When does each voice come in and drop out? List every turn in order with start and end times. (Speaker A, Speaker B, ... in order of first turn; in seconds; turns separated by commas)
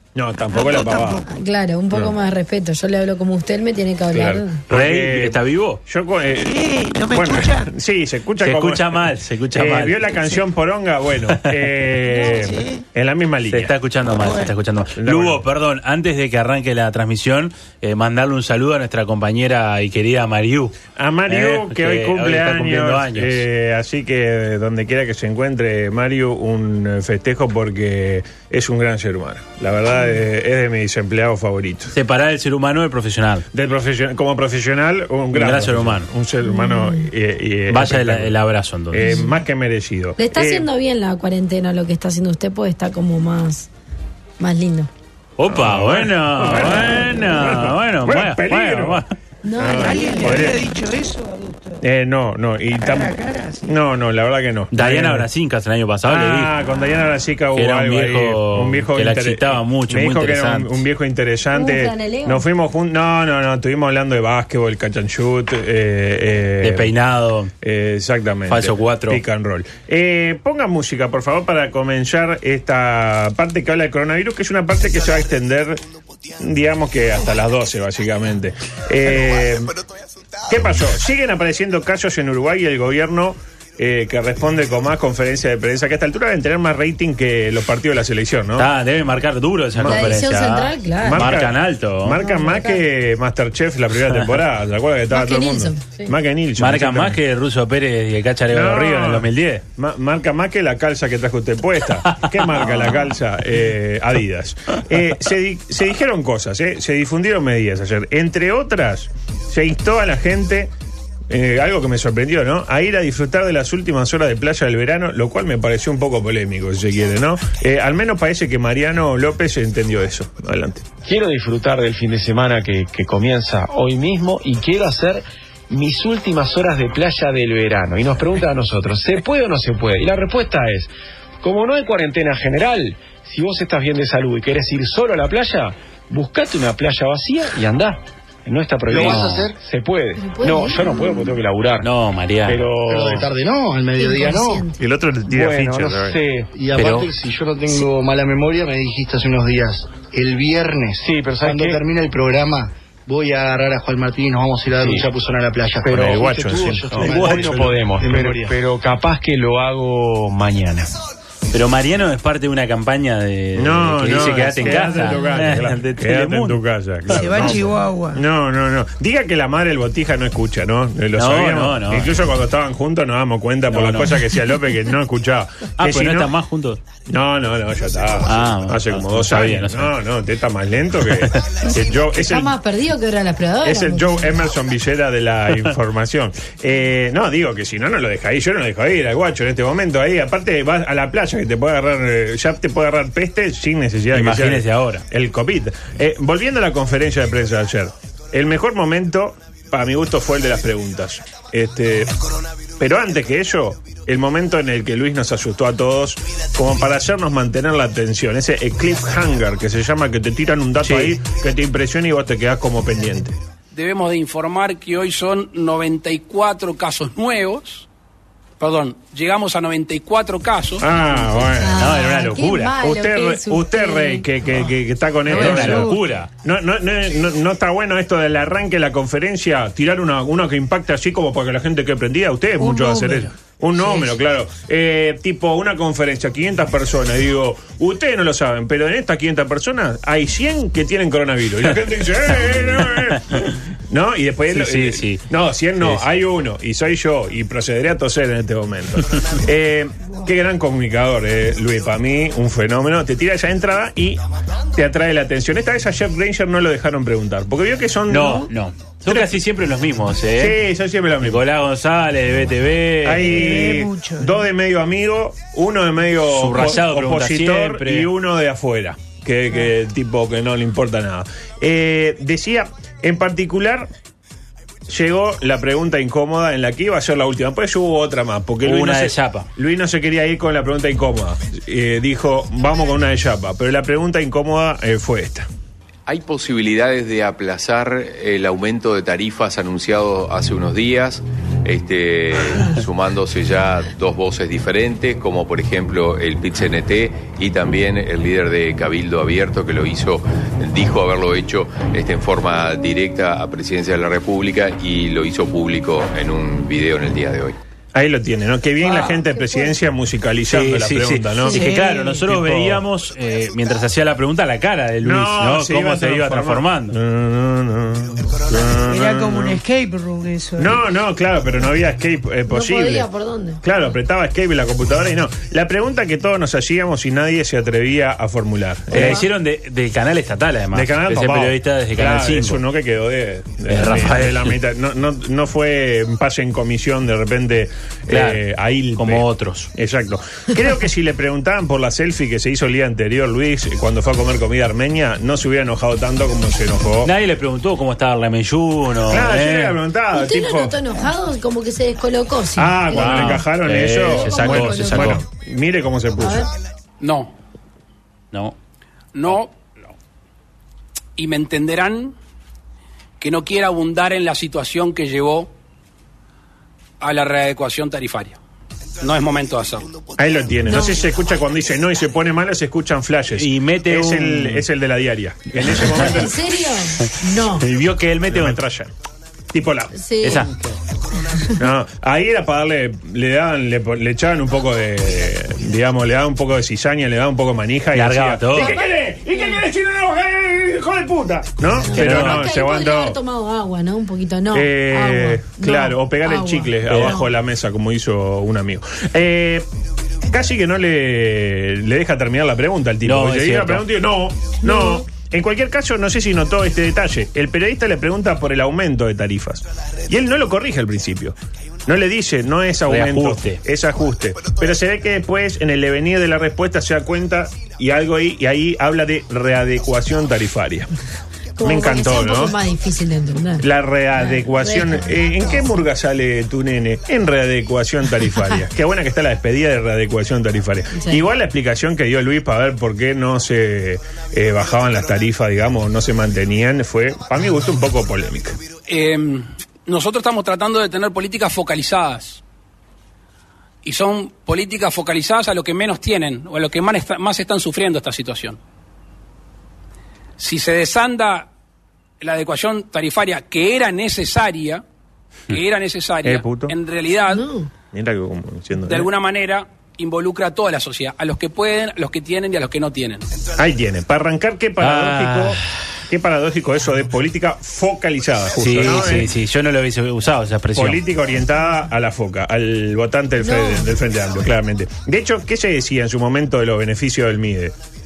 Speaker A: 0.1-1.2, Speaker B: 0.5-1.3, Speaker C: 1.3-4.6, Speaker A: 4.1-6.6, Speaker D: 4.7-5.8, Speaker B: 6.4-7.7, Speaker A: 7.1-13.7, Speaker D: 8.4-10.0, Speaker B: 12.1-12.8, Speaker D: 13.5-20.8, Speaker B: 14.2-14.5, Speaker A: 15.0-15.4, Speaker A: 21.0-31.9, Speaker D: 21.3-23.4, Speaker D: 31.9-33.5, Speaker A: 33.5-38.4, Speaker D: 35.3-36.1, Speaker C: 36.4-37.1, Speaker D: 37.7-39.2, Speaker A: 38.9-40.7, Speaker C: 39.0-39.3, Speaker C: 40.2-43.7, Speaker C: 44.4-44.9, Speaker D: 45.4-49.1, Speaker A: 45.5-49.0, Speaker C: 49.4-50.5, Speaker A: 49.6-50.6, Speaker B: 49.7-51.8, Speaker A: 51.8-55.3, Speaker B: 52.8-53.7, Speaker D: 54.7-56.5, Speaker A: 56.1-66.9, Speaker D: 57.5-60.8, Speaker C: 61.5-62.5, Speaker D: 66.6-67.5, Speaker A: 67.6-75.8, Speaker D: 68.5-69.2, Speaker A: 76.4-79.8, Speaker A: 80.5-88.7, Speaker D: 88.6-92.2, Speaker A: 89.8-90.3, Speaker C: 89.9-91.3, Speaker A: 91.0-97.2, Speaker C: 92.2-92.8, Speaker C: 95.1-96.2, Speaker D: 96.6-99.6, Speaker A: 98.5-110.7, Speaker D: 102.5-103.1, Speaker A: 111.3-120.9, Speaker E: 121.0-130.9, Speaker E: 131.4-141.9, Speaker F: 138.9-139.6, Speaker D: 139.0-139.5, Speaker C: 140.2-141.3, Speaker D: 141.8-142.7, Speaker E: 142.4-143.3, Speaker F: 142.9-144.7, Speaker C: 144.0-144.8, Speaker A: 144.8-146.2, Speaker E: 145.2-146.5, Speaker F: 146.5-158.6, Speaker D: 146.7-147.1, Speaker E: 151.0-151.8, Speaker E: 154.7-155.1, Speaker E: 155.8-160.9, Speaker D: 157.0-157.3, Speaker D: 161.5-167.6, Speaker A: 163.6-176.3, Speaker B: 167.1-168.2, Speaker D: 171.2-172.1, Speaker D: 173.7-174.4, Speaker D: 175.8-176.8, Speaker A: 177.1-182.6, Speaker D: 178.3-179.9, Speaker C: 182.1-184.2, Speaker A: 183.6-202.1, Speaker D: 194.1-195.0, Speaker A: 202.8-213.4, Speaker D: 210.8-211.2, Speaker G: 213.7-217.9, Speaker G: 218.6-220.9, Speaker A: 220.8-221.8, Speaker C: 221.6-224.3, Speaker D: 221.8-222.8, Speaker A: 222.8-254.2, Speaker D: 225.3-226.3, Speaker B: 225.3-225.9, Speaker C: 232.6-233.1, Speaker B: 232.9-233.2, Speaker D: 244.5-245.2, Speaker A: 254.8-258.5, Speaker D: 258.1-260.6, Speaker A: 259.1-259.4, Speaker A: 260.4-261.4, Speaker D: 261.2-263.8, Speaker A: 263.0-273.9, Speaker B: 263.2-264.4, Speaker D: 266.3-268.1, Speaker A: 274.9-285.5, Speaker D: 278.6-279.5, Speaker H: 286.1-307.6, Speaker A: 307.9-311.7, Speaker C: 309.2-309.7, Speaker D: 310.5-317.0, Speaker B: 311.5-312.2, Speaker A: 312.2-312.8, Speaker A: 315.0-319.6, Speaker B: 318.9-320.8, Speaker A: 320.6-323.1, Speaker C: 322.5-323.6, Speaker A: 323.6-329.2, Speaker C: 328.9-329.3, Speaker D: 328.9-332.6, Speaker A: 330.7-347.1, Speaker D: 333.7-334.6, Speaker D: 338.1-338.4, Speaker D: 339.0-339.7, Speaker D: 347.1-349.8, Speaker A: 349.1-350.8, Speaker C: 350.1-353.5, Speaker A: 352.6-356.5, Speaker D: 352.9-355.2, Speaker C: 354.1-355.2, Speaker C: 356.2-356.5, Speaker G: 357.0-357.3, Speaker G: 359.1-359.5, Speaker G: 361.2-362.1, Speaker G: 363.2-365.5, Speaker G: 367.0-368.4, Speaker G: 369.0-369.9, Speaker A: 370.2-376.4, Speaker C: 370.6-371.0, Speaker D: 373.4-374.7, Speaker D: 375.6-376.1, Speaker C: 376.0-377.7, Speaker D: 377.0-378.6, Speaker A: 378.3-378.9, Speaker A: 379.5-380.7, Speaker C: 379.9-380.5, Speaker D: 380.2-380.5, Speaker A: 381.6-393.2, Speaker D: 387.9-388.8, Speaker C: 388.5-389.6, Speaker C: 391.9-397.3, Speaker D: 392.0-392.5, Speaker A: 394.5-399.6, Speaker D: 396.9-397.1, Speaker A: 400.3-411.4, Speaker D: 403.0-403.8, Speaker C: 404.6-405.0, Speaker A: 411.9-420.9, Speaker D: 412.9-413.6, Speaker C: 421.6-423.7, Speaker A: 421.6-422.6, Speaker A: 423.6-438.6, Speaker C: 424.2-425.2, Speaker C: 430.9-431.2, Speaker G: 438.9-442.4, Speaker G: 443.8-448.6, Speaker G: 450.4-451.5, Speaker G: 452.2-454.8, Speaker G: 455.5-457.5, Speaker A: 456.2-456.7, Speaker C: 457.3-457.7, Speaker A: 457.9-459.1, Speaker G: 458.8-463.2, Speaker A: 463.6-465.6, Speaker D: 464.8-465.6, Speaker A: 466.1-469.3, Speaker D: 468.6-471.0, Speaker A: 470.8-477.7, Speaker C: 473.4-473.9